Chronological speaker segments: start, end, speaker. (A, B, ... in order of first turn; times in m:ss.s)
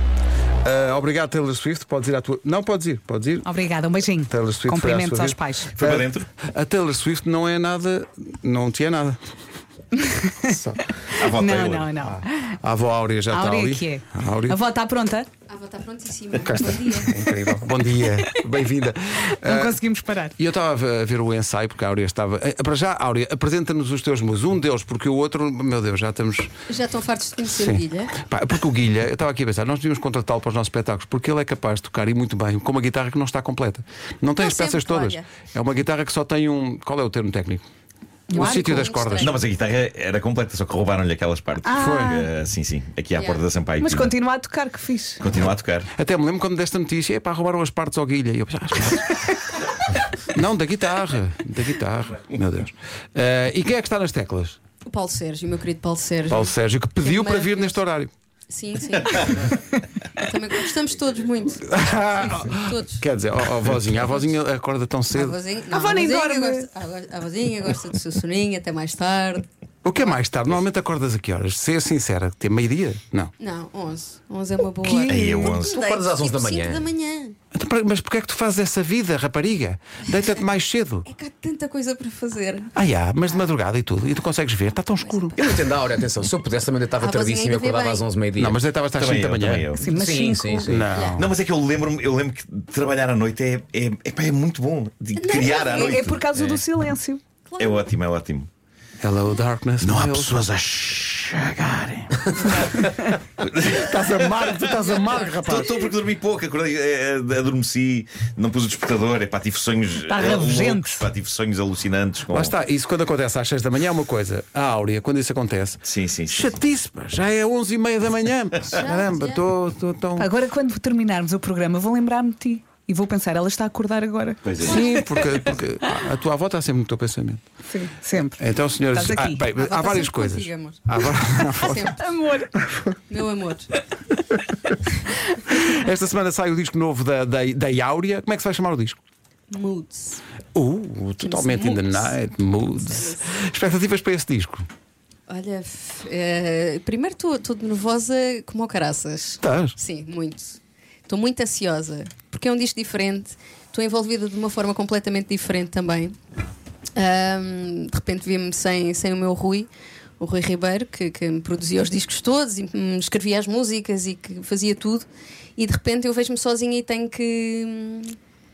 0:00.6-0:03.5 A
0:03.4-0:05.7 B
0:04.3-0:09.2 A
0:05.8-0:06.3 C
0:10.0-0:10.6 B
0:10.5-0:10.8 A
0:11.1-0:12.5 B
0:11.2-0:12.0 C
0:12.6-0:14.6 A
0:13.3-0:15.3 B
0:15.5-0:17.3 D
0:16.4-0:19.8 A
0:19.4-0:20.4 B
0:20.4-0:26.5 A
0:26.7-0:28.1 D
0:27.6-0:37.6 A
0:34.4-0:35.3 D
0:38.3-0:38.8 B
0:38.3-0:39.4 A
0:38.3-0:39.4 D
0:39.2-0:44.2 C
0:41.6-0:42.3 B
0:41.8-0:42.2 A
0:43.2-0:43.4 D
0:43.8-0:45.2 B
0:45.2-0:45.9 C
0:46.0-0:49.2 A
0:50.3-0:54.6 A
0:54.8-0:57.8 D
0:56.3-0:58.1 A
0:58.5-0:59.6 D
1:00.2-1:03.0 D
1:01.7-1:05.4 A
1:05.1-1:09.5 D
1:05.7-1:06.7 B
1:09.8-1:13.3 A
1:13.4-1:17.4 D
1:14.8-1:15.6 B
1:15.1-1:15.8 C
1:15.6-1:16.9 E
1:17.5-1:21.1 A
1:21.1-1:22.7 D
1:22.7-1:25.4 A
1:25.0-1:25.4 D
1:25.4-1:28.6 E
1:27.0-1:28.0 D
1:28.4-1:29.8 A
1:29.0-1:29.9 C
1:29.8-1:30.7 B
1:29.9-1:30.9 E
1:30.7-1:31.3 A
1:30.9-1:31.3 D
1:31.2-1:36.2 C
1:35.2-1:36.2 D
1:35.5-1:37.2 B
1:36.3-1:36.6 E
1:37.5-1:37.9 D
1:37.6-1:38.5 C
1:39.0-1:40.4 A
1:39.8-1:42.3 C
1:43.4-1:44.6 C
1:43.7-1:45.7 A
1:44.8-1:45.8 D
1:45.4-1:52.6 C
1:50.1-1:51.1 B
1:52.3-2:00.3 A
1:55.8-1:56.5 C
1:58.6-1:59.4 D
2:00.2-2:06.0 B
2:04.4-2:05.0 C
2:04.6-2:07.4 A
2:07.7-2:09.5 B
2:08.4-2:12.0 A
2:09.5-2:10.9 D
2:11.3-2:12.5 B
2:11.6-2:12.0 D
2:13.1-2:13.7 D
2:15.4-2:19.0 A
2:19.5-2:20.2 D
2:20.6-2:24.7 A
2:21.2-2:22.2 D
2:22.8-2:23.3 D
2:25.3-2:36.2 D
2:29.4-2:29.8 A
2:37.0-2:39.7 D
2:40.2-2:45.1 D
2:45.6-2:48.2 D